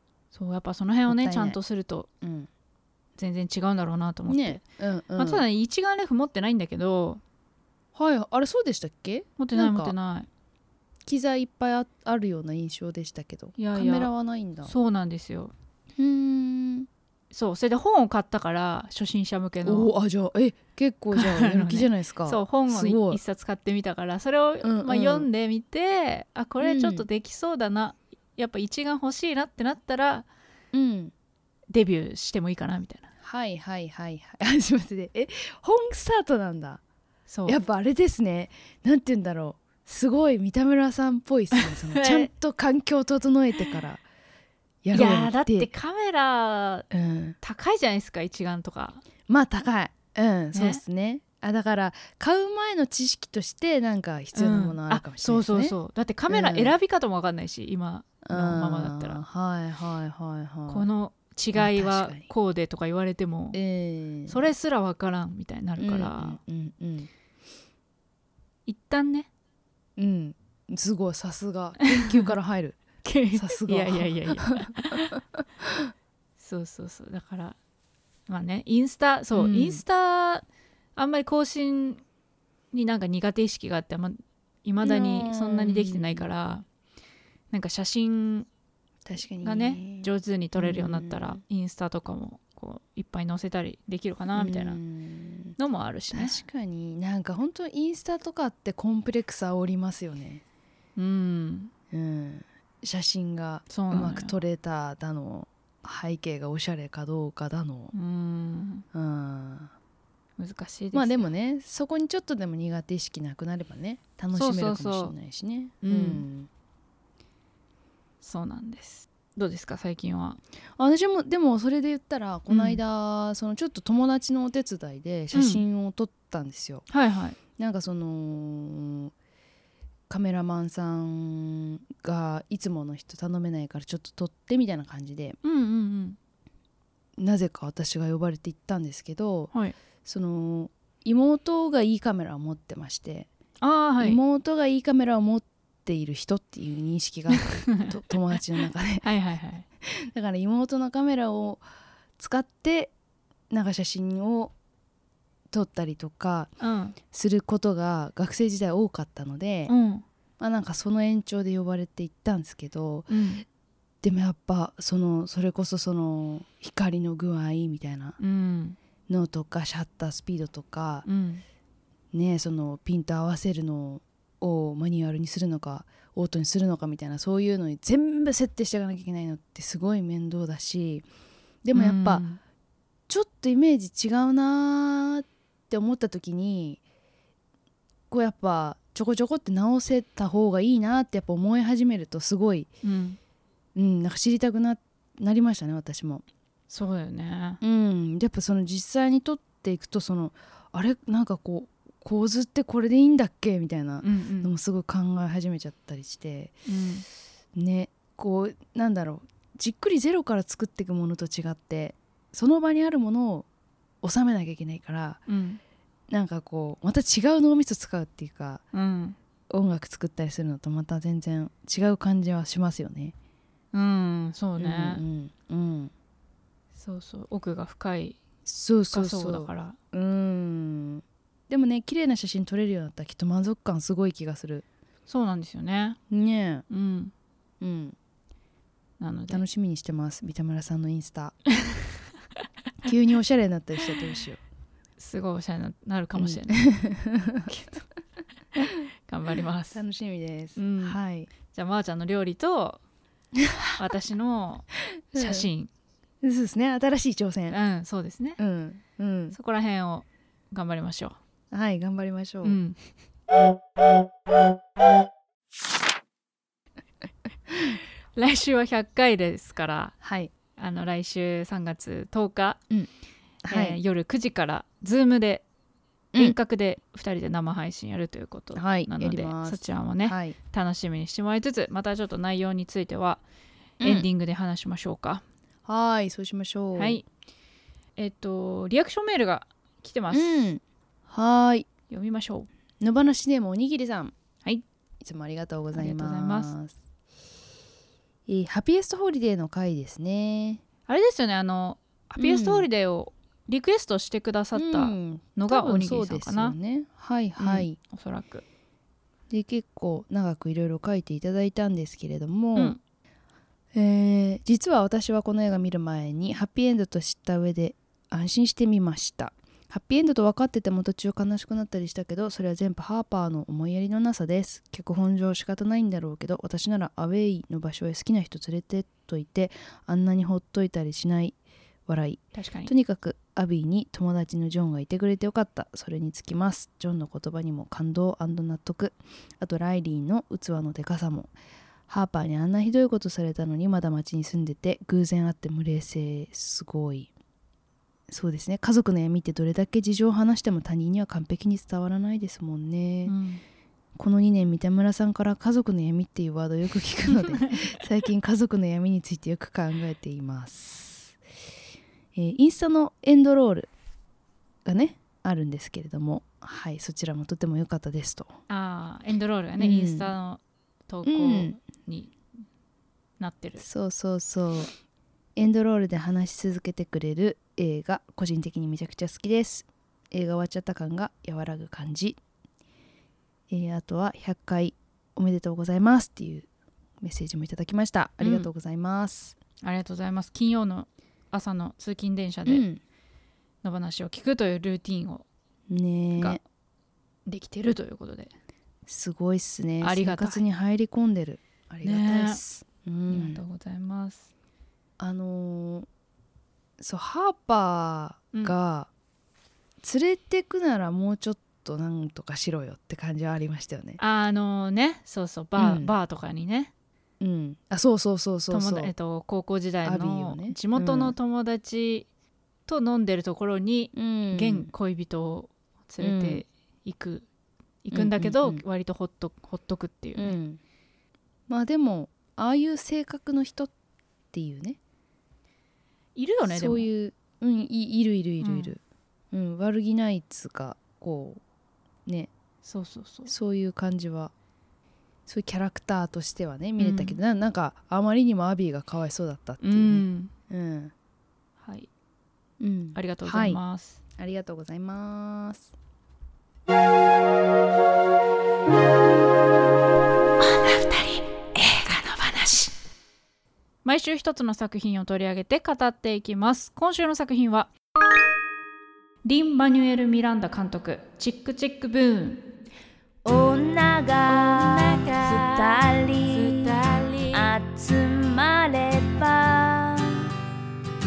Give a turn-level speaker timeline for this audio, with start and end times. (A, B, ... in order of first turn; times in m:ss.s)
0:00.3-0:02.1 A
0:01.0-0:01.6 B
0:02.2-0:02.5 B
0:03.2-0:04.6 A
0:04.3-0:05.4 B
0:05.2-0:07.2 A
0:07.9-0:09.9 B
0:09.4-0:10.3 A
0:11.0-0:14.7 B
0:13.6-0:14.1 A
0:14.6-0:15.5 A
0:16.0-0:16.9 B
0:17.3-0:19.9 A
0:19.6-0:23.2 B
0:21.1-0:30.3 A
0:24.6-0:25.3 B
0:26.6-0:27.1 B
0:30.7-0:31.1 B
0:31.7-0:33.1 A
0:33.2-0:36.8 B
0:37.3-0:37.6 A
0:37.4-0:44.0 B
0:41.6-0:42.3 A
0:44.8-0:45.7 B
0:44.9-0:46.9 A
0:46.9-0:47.4 B
0:47.4-0:49.0 A
0:49.3-0:55.8 B
0:50.5-0:50.8 A
0:54.3-0:59.2 A
0:56.3-0:56.7 B
0:58.2-1:00.9 B
1:00.7-1:03.6 A
1:01.5-1:02.3 B
1:03.5-1:04.5 B
1:04.3-1:06.4 A
1:05.8-1:07.1 B
1:08.7-1:09.3 A
1:10.0-1:12.8 B
1:11.8-1:12.3 A
1:13.0-1:15.2 A
1:13.3-1:15.2 B
1:16.4-1:17.6 A
1:18.3-1:20.4 A
1:19.3-1:19.8 B
1:21.0-1:22.0 A
1:22.7-1:26.6 A
1:24.8-1:26.3 B
1:27.5-1:28.5 A
1:29.0-1:31.4 B
1:29.4-1:34.8 A
1:34.3-1:35.6 B
1:35.6-1:36.4 A
1:36.1-1:40.4 B
1:41.0-1:41.7 A
1:41.9-1:47.9 B
1:43.7-1:44.4 A
1:47.9-1:48.8 A
1:48.9-1:49.7 B
1:50.4-1:51.3 A
1:50.9-1:56.5 B
1:54.3-1:55.1 A
1:55.8-1:56.2 A
1:58.2-2:00.4 A
2:00.8-2:06.8 B
2:02.5-2:02.8 A
2:05.3-2:05.6 A
2:06.9-2:07.4 A
2:07.6-2:09.1 B
2:10.1-2:15.4 B
2:15.4-2:16.2 A
2:17.2-2:19.5 B
2:20.0-2:23.3 B
2:23.6-2:24.2 A
2:24.0-2:29.0 B
2:27.4-2:27.9 A
2:29.0-2:29.7 A
2:29.8-2:31.6 B
2:32.2-2:32.9 B
2:33.5-2:34.5 B
2:35.5-2:36.5 B
2:36.6-2:37.0 A
2:37.1-2:39.7 B
2:39.7-2:40.0 A
2:40.4-2:43.1 B
2:43.1-2:43.4 A
2:44.0-2:48.2 B
2:48.2-2:48.8 A
2:49.1-2:51.0 B
2:51.0-2:51.4 A
2:52.1-3:01.0 B
3:01.6-3:02.2 B
3:01.7-3:02.4 A
3:03.1-3:06.8 B
3:08.1-3:12.7 B
3:12.8-3:13.2 A
3:13.7-3:16.2 B
3:16.7-3:17.6 A
3:17.6-3:26.5 B
3:24.0-3:24.5 A
3:26.6-3:27.0 A
3:27.5-3:33.4 B
3:34.0-3:35.2 B
3:35.3-3:35.6 A
3:36.1-3:38.6 B
3:38.7-3:39.2 A
3:39.5-3:43.1 B
3:43.7-3:45.0 A
3:44.6-3:45.9 B
3:46.8-3:48.2 A
3:48.4-3:54.6 B
3:48.9-3:49.8 A
3:55.1-3:56.0 A
3:56.1-3:56.6 B
3:56.7-3:57.1 A
3:57.6-3:58.0 B
3:59.0-3:59.4 A
3:59.3-4:01.4 B
4:02.8-4:04.4 B
4:05.0-4:06.6 A
4:06.2-4:07.5 B
4:07.5-4:07.8 A
4:08.6-4:09.8 A
4:09.7-4:11.3 B
4:10.6-4:12.8 A
4:13.4-4:13.7 B
4:13.8-4:15.7 A
4:15.1-4:15.5 B
4:16.2-4:17.6 B
4:17.5-4:18.4 A
4:18.4-4:19.4 B
4:19.3-4:21.2 A
4:21.5-4:22.6 B
4:22.4-4:22.8 A
4:28.1-4:30.0 A
4:30.0-4:30.3 B
4:30.6-4:32.6 A
4:33.4-4:33.8 B
4:33.5-4:35.4 A
4:36.2-4:43.2 A
4:38.5-4:40.4 B
4:43.8-4:44.1 B
4:43.8-4:45.2 A
4:45.6-4:47.0 B
4:46.8-4:47.0 A
4:48.0-4:50.5 A
4:50.1-4:51.7 B
4:51.9-4:52.5 A
4:52.8-4:54.1 B
4:55.0-4:56.7 B
4:55.7-4:56.5 A
4:58.3-5:00.6 B
5:00.9-5:06.6 A
5:02.2-5:02.7 B
5:04.5-5:07.8 B
5:07.4-5:08.4 A
5:09.3-5:12.8 B
5:13.7-5:41.3 B
5:32.3-5:32.7 A
5:41.9-5:47.1 B
5:48.1-5:53.1 B
5:53.0-5:53.4 A
5:54.0-6:01.2 B
5:57.1-5:57.8 A
6:02.1-6:03.7 B
6:04.6-6:08.3 B
6:08.5-6:12.1 A
6:09.6-6:10.1 B
6:11.0-6:11.6 B
6:13.2-6:13.6 A
6:13.6-6:14.7 B
6:15.4-6:22.2 B
6:23.5-6:26.5 B
6:27.0-6:29.4 B
6:28.2-6:28.5 A
6:29.6-6:32.6 A
6:32.4-6:32.8 B
6:33.6-6:35.2 A
6:35.7-6:36.4 B
6:37.3-6:38.3 A
6:38.9-6:43.4 B
6:39.8-6:40.4 A
6:41.8-6:42.4 A
6:43.1-6:44.3 A
6:45.0-6:45.9 B
6:46.8-6:48.9 B
6:49.8-6:54.0 B
6:54.0-6:56.7 A
6:55.6-6:55.9 B
6:57.2-6:58.9 B
6:58.5-7:02.1 A
6:59.8-7:01.2 B
7:02.7-7:07.3 A
7:03.9-7:04.7 B
7:06.0-7:06.4 B
7:07.8-7:10.4 A
7:07.9-7:08.6 B
7:10.2-7:10.6 B
7:11.5-7:13.7 B
7:14.3-7:14.8 B
7:16.1-7:16.9 A
7:16.4-7:18.8 B
7:18.4-7:18.7 A
7:19.3-7:21.4 B
7:22.0-7:22.3 B
7:22.6-7:23.3 A
7:23.3-7:24.3 B
7:25.3-7:30.9 B
7:26.8-7:27.2 A
7:29.6-7:30.3 A
7:31.6-7:31.9 A
7:32.6-7:33.6 B
7:32.9-7:34.0 A
7:34.2-7:35.7 B
7:40.4-7:42.7 A
7:43.8-7:47.7 A
7:49.2-7:52.5 A
7:53.2-8:00.3 C
7:54.3-7:55.5 A
7:56.3-7:57.5 A